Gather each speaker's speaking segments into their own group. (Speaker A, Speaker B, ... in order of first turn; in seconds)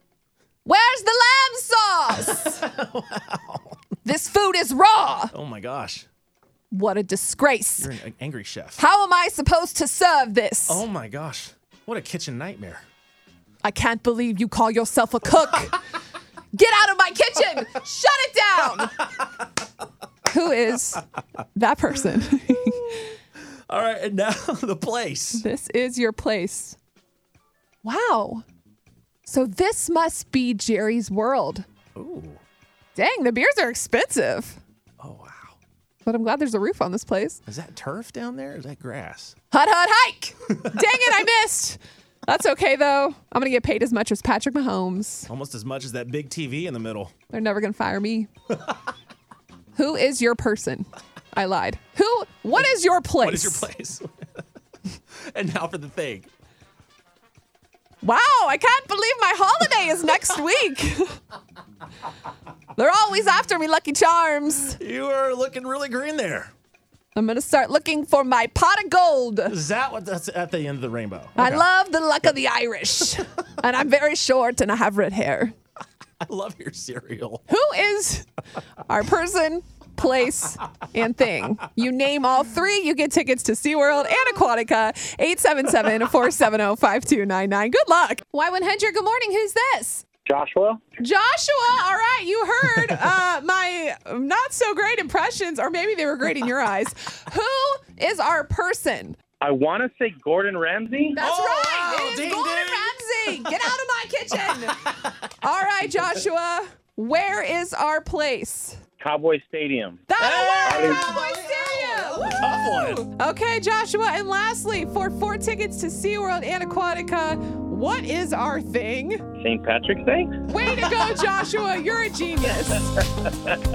Speaker A: 0.6-2.6, 4.0-5.3, 6.7-7.9, 8.8-10.8, 13.6-15.8, 16.5-19.0, 20.2-23.1, 25.4-26.8, 27.8-28.4, 29.2-31.6, 32.9-34.6, 36.0-37.4, 39.5-45.3, 47.3-48.3, 49.7-53.7, 58.0-61.2, 62.7-64.8, 67.1-69.5, 71.3-75.5, 77.5-78.3, 78.8-90.0, 91.0-99.2, 101.1-108.8, 110.1-119.2, 120.5-122.9
Speaker B: 2.2-3.8, 5.3-6.0, 7.8-8.8, 10.7-12.8, 22.6-23.1, 23.7-25.4, 31.9-32.4, 35.0-35.5, 37.5-39.4, 45.3-47.1, 53.2-54.2, 55.1-56.3, 64.8-66.5, 69.5-71.7, 76.2-77.4, 101.2-103.5, 104.4-105.2, 110.2-113.0
Speaker C: 90.2-90.8, 99.4-101.2, 109.0-110.0, 110.6-111.2, 119.4-120.4, 123.2-123.5